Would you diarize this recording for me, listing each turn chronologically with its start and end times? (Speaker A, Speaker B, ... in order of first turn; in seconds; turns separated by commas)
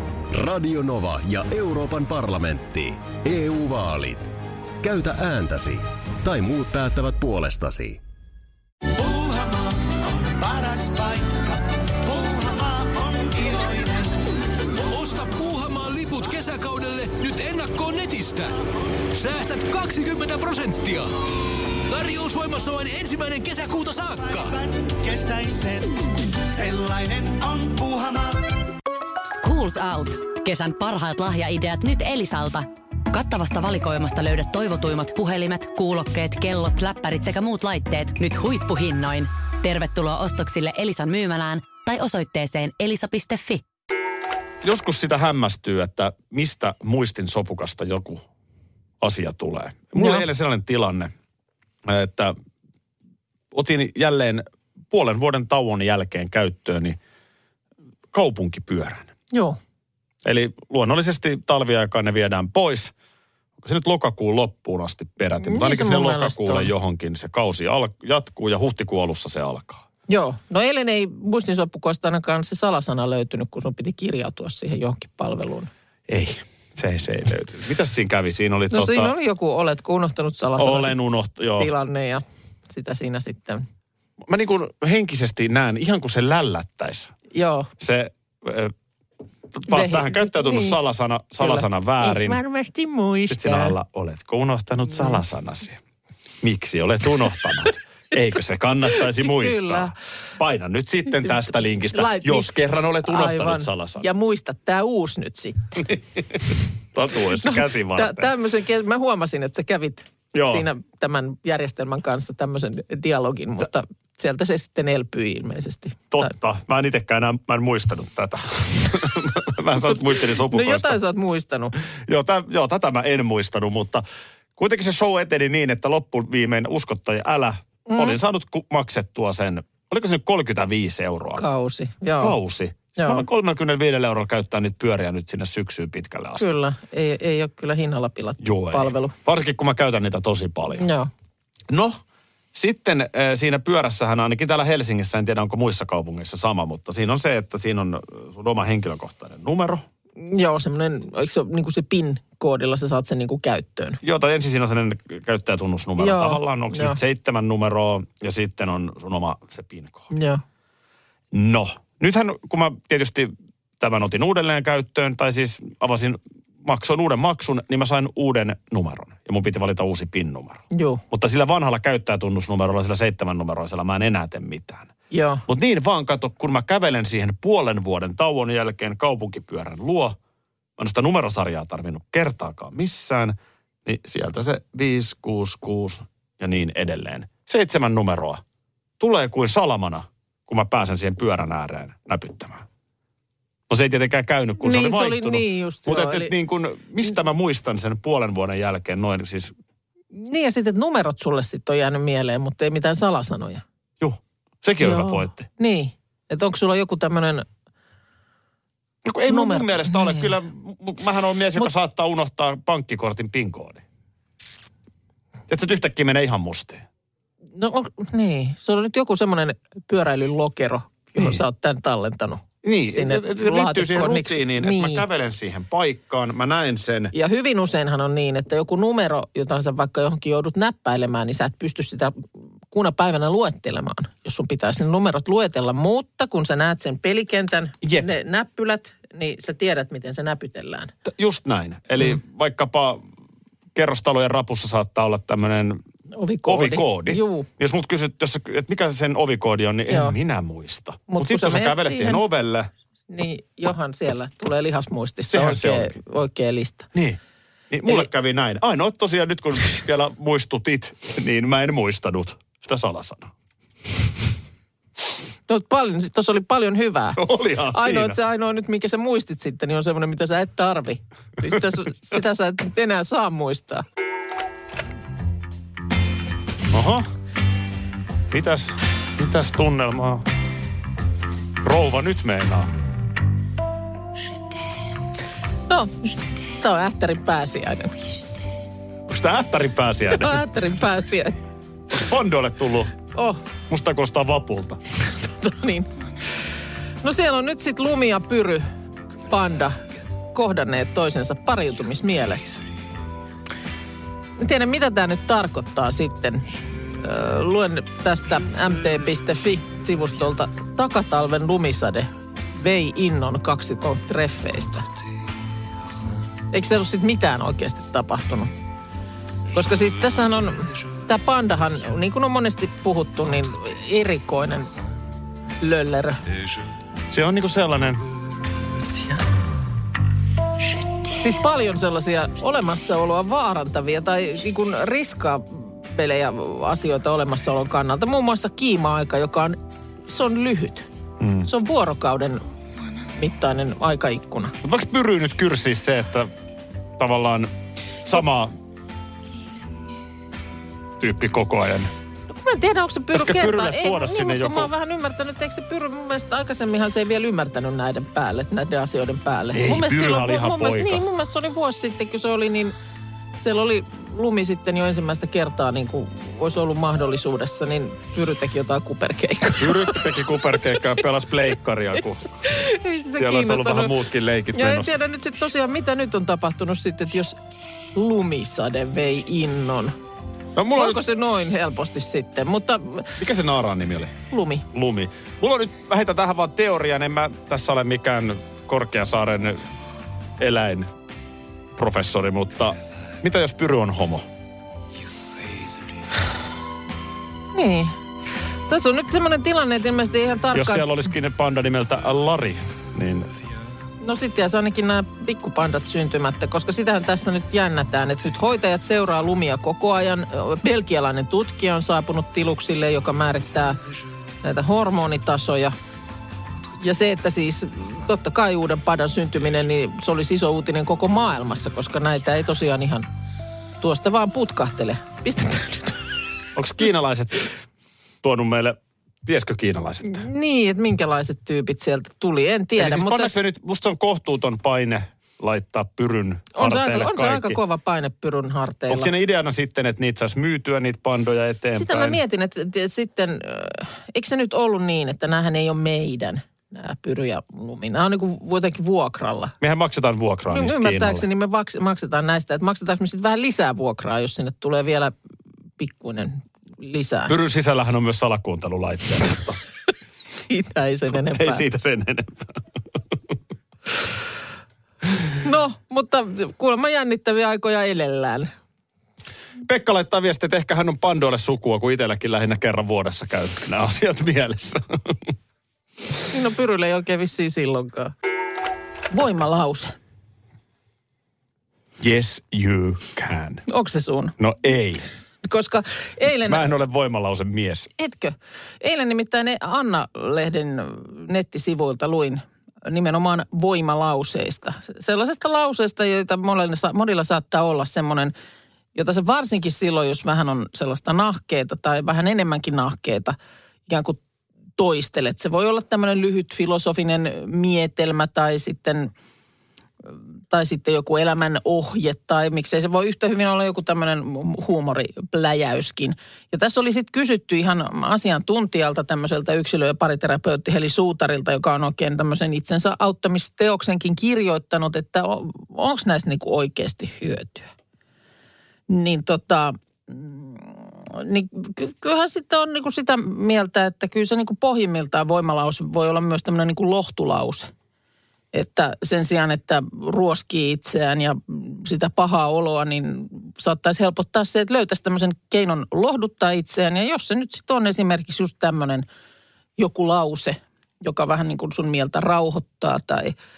Speaker A: 0.3-8.0, Speaker B: 8.9-14.2, Speaker C: 14.9-18.5, Speaker C: 19.1-21.1, Speaker C: 21.9-24.5, Speaker B: 24.2-28.4, Speaker D: 29.2-43.6, Speaker E: 44.6-48.2, Speaker E: 49.0-51.1, Speaker F: 50.0-50.2, Speaker E: 51.9-52.3, Speaker E: 53.5-57.0, Speaker E: 58.1-59.1, Speaker F: 59.3-59.6, Speaker E: 60.2-62.9, Speaker E: 63.6-69.8, Speaker F: 65.4-66.7, Speaker F: 70.1-75.7, Speaker E: 76.1-79.1, Speaker F: 78.7-80.9, Speaker E: 80.6-81.7, Speaker F: 81.6-83.6, Speaker E: 84.3-87.1, Speaker F: 87.3-87.7, Speaker E: 87.8-88.7, Speaker E: 89.5-92.4, Speaker F: 89.7-90.8, Speaker F: 91.4-93.8, Speaker E: 93.3-95.8, Speaker F: 94.9-95.2, Speaker E: 96.4-104.0, Speaker F: 99.0-99.9, Speaker F: 101.2-102.5, Speaker F: 103.0-105.8, Speaker E: 105.9-108.3, Speaker F: 107.4-116.3, Speaker E: 110.3-110.7, Speaker E: 116.1-121.0, Speaker F: 120.5-121.7, Speaker E: 122.1-124.0, Speaker E: 124.6-131.4, Speaker F: 127.9-128.2, Speaker F: 131.3-132.4, Speaker E: 132.2-136.5, Speaker F: 133.0-133.2, Speaker F: 136.4-139.1, Speaker E: 138.4-140.8, Speaker F: 140.8-141.1, Speaker E: 141.7-142.0, Speaker E: 142.5-149.8, Speaker F: 150.2-154.0, Speaker E: 154.0-160.1, Speaker F: 156.0-157.0, Speaker F: 160.1-160.4, Speaker E: 161.3-174.9, Speaker F: 170.7-171.0, Speaker F: 175.1-175.4, Speaker E: 175.5-180.2, Speaker E: 180.8-188.4, Speaker E: 189.0-192.6, Speaker E: 193.7-199.5, Speaker F: 194.6-196.3, Speaker F: 200.1-203.6, Speaker E: 204.0-205.5, Speaker F: 204.8-207.4, Speaker E: 209.1-213.8, Speaker F: 209.3-210.3, Speaker E: 215.5-216.8, Speaker F: 217.5-225.0, Speaker E: 222.6-227.1, Speaker F: 227.1-240.9, Speaker E: 241.1-243.0, Speaker E: 243.7-245.8, Speaker F: 246.1-247.5, Speaker E: 246.4-252.7, Speaker F: 249.9-250.1, Speaker F: 251.1-252.2, Speaker F: 253.1-256.9, Speaker E: 255.3-255.9, Speaker E: 256.9-257.2, Speaker E: 257.7-263.3, Speaker F: 265.5-267.2, Speaker E: 267.2-268.2, Speaker F: 267.7-273.8, Speaker E: 276.7-277.1, Speaker E: 278.3-280.2, Speaker E: 281.6-282.7, Speaker F: 285.7-288.2, Speaker E: 289.1-290.4, Speaker F: 290.1-291.4, Speaker E: 291.9-292.9, Speaker F: 293.1-293.4, Speaker E: 293.7-294.8, Speaker F: 295.2-295.9, Speaker F: 297.0-298.7, Speaker F: 299.3-299.8, Speaker F: 300.3-302.6, Speaker F: 304.4-306.5, Speaker F: 307.0-314.9, Speaker F: 316.5-318.5, Speaker F: 319.5-324.7, Speaker F: 325.6-326.2, Speaker E: 327.1-328.0, Speaker F: 331.1-340.9, Speaker E: 341.2-341.5, Speaker F: 341.4-342.4, Speaker F: 343.1-344.6, Speaker E: 344.6-346.3, Speaker E: 347.0-347.5, Speaker E: 348.0-348.5, Speaker E: 351.0-351.9, Speaker F: 352.3-362.7, Speaker E: 353.1-354.7, Speaker E: 359.5-361.0, Speaker F: 363.4-370.0, Speaker E: 369.6-372.3, Speaker F: 372.4-373.9, Speaker E: 373.1-374.9, Speaker F: 374.5-377.4, Speaker F: 377.9-379.9, Speaker E: 380.6-381.0, Speaker F: 380.8-383.1, Speaker E: 383.2-384.1, Speaker F: 384.3-384.6, Speaker E: 384.7-389.6, Speaker E: 390.4-390.9, Speaker E: 391.8-394.2, Speaker F: 397.5-397.9, Speaker F: 398.7-400.8, Speaker E: 400.5-403.3, Speaker F: 404.0-413.8, Speaker F: 414.4-415.7, Speaker F: 416.8-423.1, Speaker F: 423.8-426.0, Speaker E: 426.5-427.5, Speaker E: 428.2-430.2, Speaker F: 430.0-433.3, Speaker E: 432.8-437.6, Speaker F: 436.5-439.1, Speaker E: 438.9-442.2, Speaker F: 441.7-449.5, Speaker E: 449.6-451.2, Speaker F: 450.5-455.1, Speaker F: 455.8-457.3, Speaker E: 457.3-459.6, Speaker F: 460.3-461.6, Speaker E: 461.1-462.6, Speaker F: 465.4-468.5, Speaker E: 469.6-475.3, Speaker F: 476.3-478.1, Speaker F: 479.1-479.9, Speaker E: 482.0-483.6, Speaker F: 483.7-484.4, Speaker E: 484.4-485.0, Speaker F: 485.4-486.7, Speaker E: 486.4-487.9, Speaker F: 488.0-498.3, Speaker F: 498.9-504.2, Speaker F: 504.8-509.1, Speaker F: 510.0-527.7, Speaker F: 528.9-537.7, Speaker F: 538.5-549.0, Speaker F: 549.8-553.4